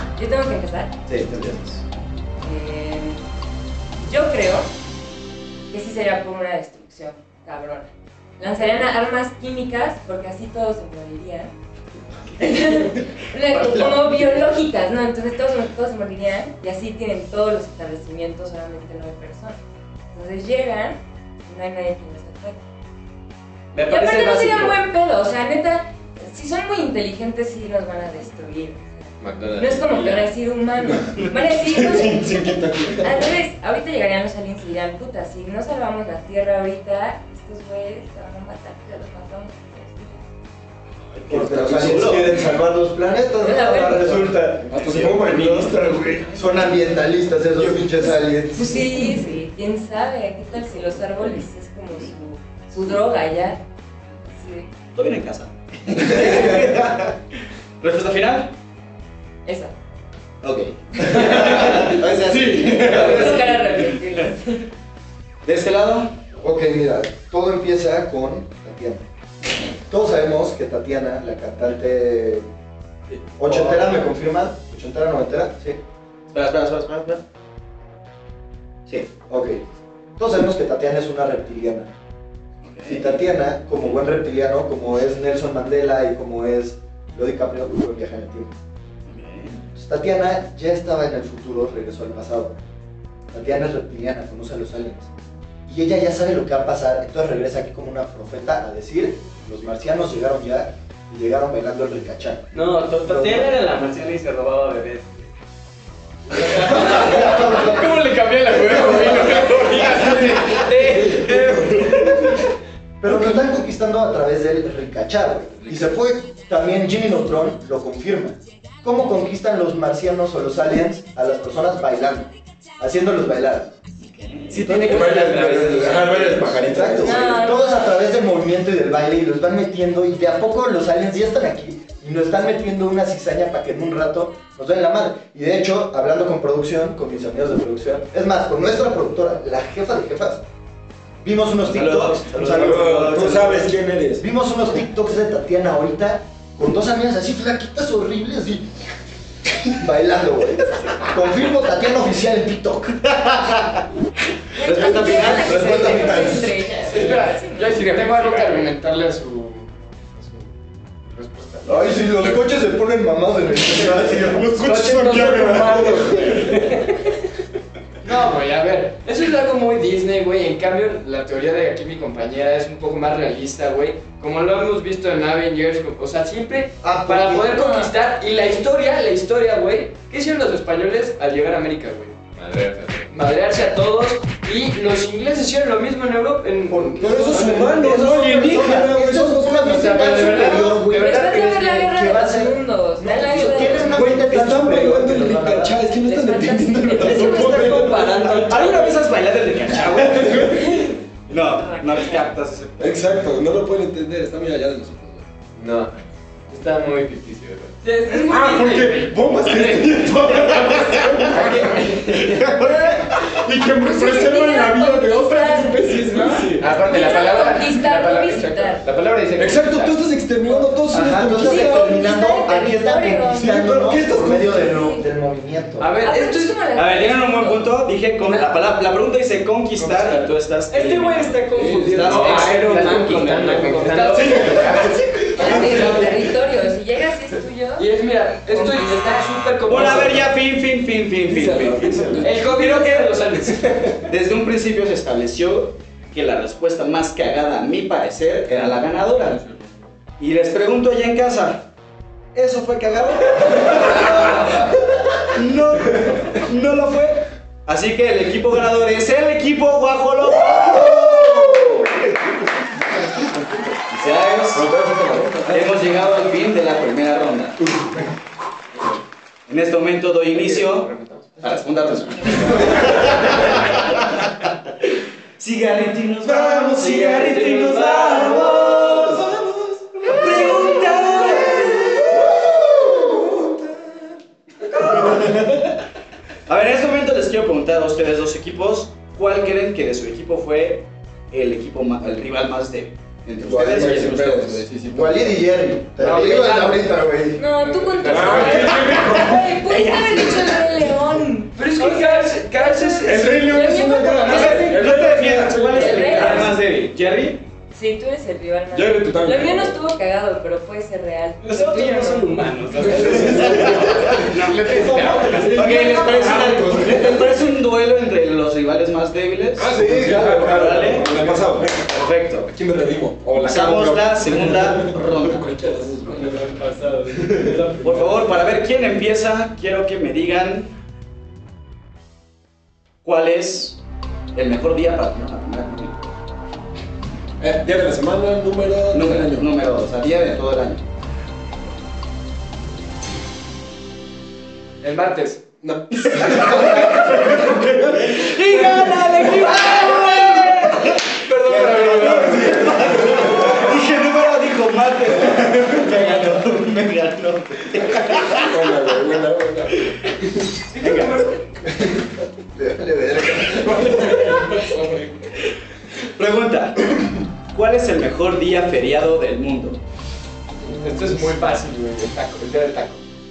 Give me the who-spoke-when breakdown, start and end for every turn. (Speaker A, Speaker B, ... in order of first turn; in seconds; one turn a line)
Speaker A: 0.1-0.9
Speaker B: 1.1-1.8
Speaker A: 2.4-3.2
Speaker A: 4.0-4.7
Speaker A: 5.7-11.5
Speaker A: 12.4-19.6
Speaker C: 13.8-14.4
Speaker A: 20.1-22.6
Speaker C: 23.7-24.8
Speaker A: 23.8-40.2
Speaker D: 29.2-30.3
Speaker E: 31.1-33.2
Speaker B: 41.1-42.5
Speaker F: 41.3-44.7
Speaker E: 41.8-42.0
Speaker A: 43.4-44.2
Speaker B: 44.0-46.2
Speaker E: 44.7-46.9
Speaker F: 46.3-49.1
Speaker A: 48.5-53.6
Speaker A: 54.3-54.7
Speaker B: 54.9-57.2
Speaker B: 57.8-58.5
Speaker A: 59.4-59.7
Speaker B: 60.4-64.3
Speaker E: 62.2-63.4
Speaker A: 62.7-64.7
Speaker B: 65.4-66.2
Speaker F: 66.4-69.0
Speaker F: 69.9-72.5
Speaker B: 73.4-74.0
Speaker F: 73.4-75.8
Speaker B: 76.3-77.2
Speaker F: 79.3-79.6
Speaker F: 80.2-81.9
Speaker B: 82.6-83.2
Speaker F: 82.8-88.5
Speaker B: 89.0-89.6
Speaker F: 89.7-92.5
Speaker F: 93.3-95.1
Speaker F: 95.7-103.5
Speaker C: 102.5-105.3
Speaker C: 106.3-107.2
Speaker G: 106.4-112.4
Speaker F: 106.5-108.0
Speaker D: 108.6-110.7
Speaker F: 113.0-123.7
Speaker B: 124.0-124.8
Speaker C: 124.5-126.4
Speaker F: 124.7-140.4
Speaker E: 124.7-127.4
Speaker A: 127.0-127.9
Speaker F: 141.2-143.6
Speaker B: 141.7-143.7
Speaker E: 142.5-144.2
Speaker F: 144.2-148.7
Speaker F: 149.5-153.6
Speaker A: 154.5-157.8
Speaker B: 154.6-156.2
Speaker F: 154.7-156.6
Speaker G: 156.8-162.0
Speaker D: 156.9-158.7
Speaker F: 161.6-164.5
Speaker E: 164.2-166.6
Speaker C: 164.6-167.1
Speaker G: 168.0-182.2
Speaker F: 176.8-177.6
Speaker A: 177.5-177.9
Speaker D: 182.3-183.1
Speaker G: 183.1-187.9
Speaker F: 186.7-195.8
Speaker E: 187.0-189.9
Speaker D: 189.6-191.5
Speaker G: 190.2-191.6
Speaker A: 190.8-194.1
Speaker E: 193.3-198.6
Speaker A: 196.0-197.6
Speaker C: 197.0-199.2
Speaker B: 198.3-203.2
Speaker E: 199.7-200.9
Speaker A: 201.5-202.3
Speaker E: 202.8-205.3
Speaker D: 205.6-205.9
Speaker D: 206.5-207.8
Speaker G: 207.8-209.1
Speaker E: 208.3-216.6
Speaker D: 209.3-212.6
Speaker A: 213.8-218.8
Speaker C: 216.2-216.6
Speaker D: 216.6-220.1
Speaker E: 219.3-222.0
Speaker F: 220.9-225.9
Speaker A: 221.3-223.6
Speaker E: 223.4-224.8
Speaker A: 224.5-225.1
Speaker G: 225.8-226.6
Speaker A: 226.0-227.7
Speaker B: 226.7-233.3
Speaker C: 230.7-234.3
Speaker E: 231.5-232.3
Speaker D: 232.0-235.9
Speaker G: 233.8-234.8
Speaker E: 234.1-236.2
Speaker A: 235.3-237.9
Speaker G: 235.5-236.1
Speaker G: 237.8-240.3
Speaker A: 238.5-239.3
Speaker B: 239.7-243.1
Speaker E: 241.2-242.4
Speaker C: 241.7-243.0
Speaker G: 242.2-243.9
Speaker B: 244.1-249.4
Speaker E: 248.5-249.6
Speaker B: 250.2-251.7
Speaker B: 252.3-254.7
Speaker E: 253.6-254.5
Speaker B: 255.2-262.1
Speaker E: 262.9-263.8
Speaker B: 263.9-264.7
Speaker E: 264.5-266.0
Speaker B: 265.5-267.6
Speaker E: 267.7-268.0
Speaker B: 269.5-274.0
Speaker D: 270.3-271.6
Speaker E: 272.3-273.1
Speaker B: 275.4-279.3
Speaker E: 276.2-283.7
Speaker G: 277.4-278.5
Speaker B: 280.0-282.3
Speaker B: 284.7-285.4
Speaker E: 284.8-285.7
Speaker B: 286.5-294.6
Speaker E: 293.4-295.4
Speaker F: 293.5-293.9
Speaker F: 294.9-297.4
Speaker G: 296.0-296.8
Speaker A: 297.4-304.7
Speaker G: 297.7-298.8
Speaker D: 298.0-299.1
Speaker E: 298.1-300.6
Speaker G: 301.5-303.6
Speaker E: 303.0-306.5
Speaker B: 304.2-307.4
Speaker A: 305.7-306.5
Speaker G: 306.0-306.4
Speaker A: 307.7-312.3
Speaker E: 308.7-309.8
Speaker C: 311.4-314.2
Speaker E: 312.8-317.4
Speaker B: 313.1-322.5
Speaker D: 314.3-315.9
Speaker E: 319.6-326.6
Speaker F: 319.7-321.4
Speaker B: 323.4-325.5
Speaker C: 326.0-328.4
Speaker E: 327.1-327.6
Speaker B: 327.8-330.8
Speaker B: 333.0-333.8
Speaker B: 334.3-336.1
Speaker E: 337.4-339.5
Speaker B: 338.9-340.8
Speaker G: 344.8-345.4
Speaker E: 345.6-349.2
Speaker B: 346.2-358.8
Speaker G: 349.2-352.8
Speaker E: 352.0-353.8
Speaker E: 355.3-355.6
Speaker E: 358.0-360.1
Speaker G: 360.7-361.5
Speaker B: 360.8-361.2
Speaker F: 362.5-364.3
Speaker E: 363.5-365.4
Speaker B: 366.1-369.8
Speaker G: 370.6-373.0